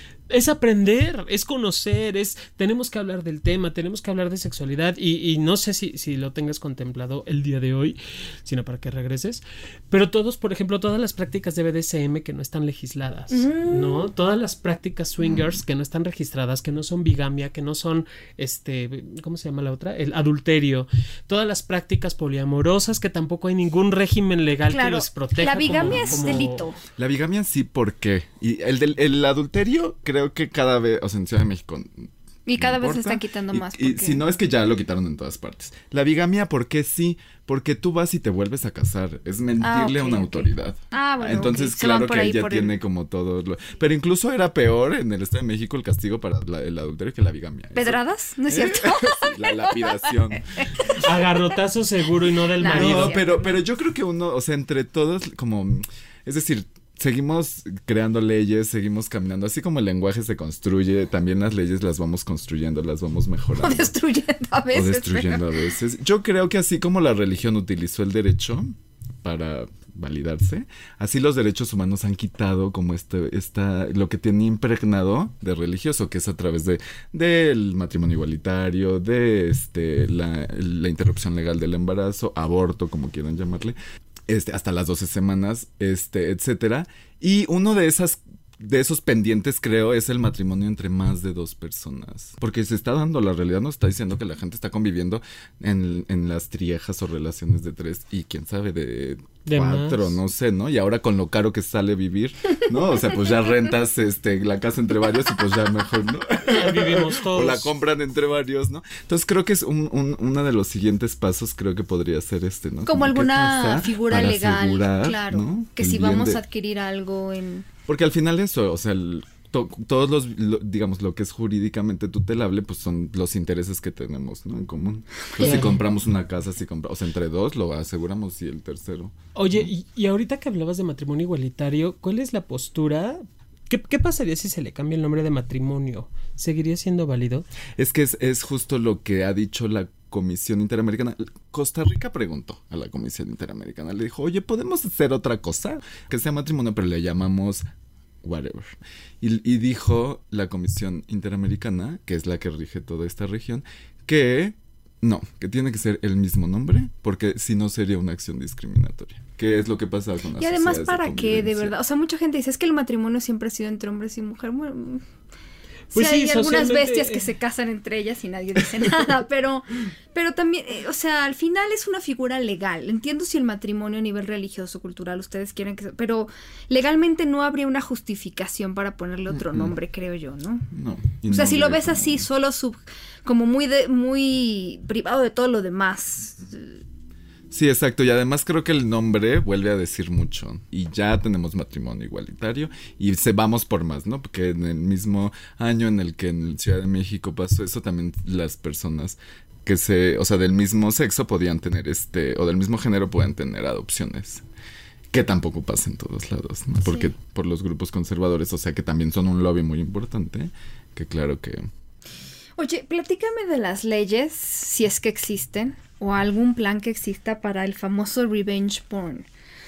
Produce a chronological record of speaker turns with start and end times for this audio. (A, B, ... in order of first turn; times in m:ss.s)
0:00.3-0:26.7 A
0:13.3-0:14.1 B
0:15.3-0:15.5 C
0:24.7-0:26.8 B
0:25.8-0:26.4 C
0:27.0-0:50.4 C
0:32.5-0:34.2 B
0:39.6-0:42.8 B
0:47.8-0:50.0 B
0:50.6-0:51.0 B
0:50.9-0:53.2 A
0:52.6-0:53.5 B
0:52.6-1:03.9 C
1:03.6-1:05.6 B
1:04.7-1:23.8 C
1:24.3-1:56.4 C
1:39.5-1:40.2 A
1:46.4-1:47.7 A
1:52.9-1:57.7 B
1:57.9-2:09.7 C
2:05.4-2:05.8 A
2:09.4-2:17.5 A
2:17.8-2:27.6 C
2:28.2-2:41.7 C
2:40.4-2:45.0 B
2:45.9-2:47.2 A
2:45.9-3:00.7 B
2:59.3-2:59.7 C
3:00.7-3:02.3 C
3:01.3-3:06.8 B
3:07.5-3:24.4 C
3:25.1-3:31.7 C
3:26.8-3:27.1 B
3:32.6-3:39.3 B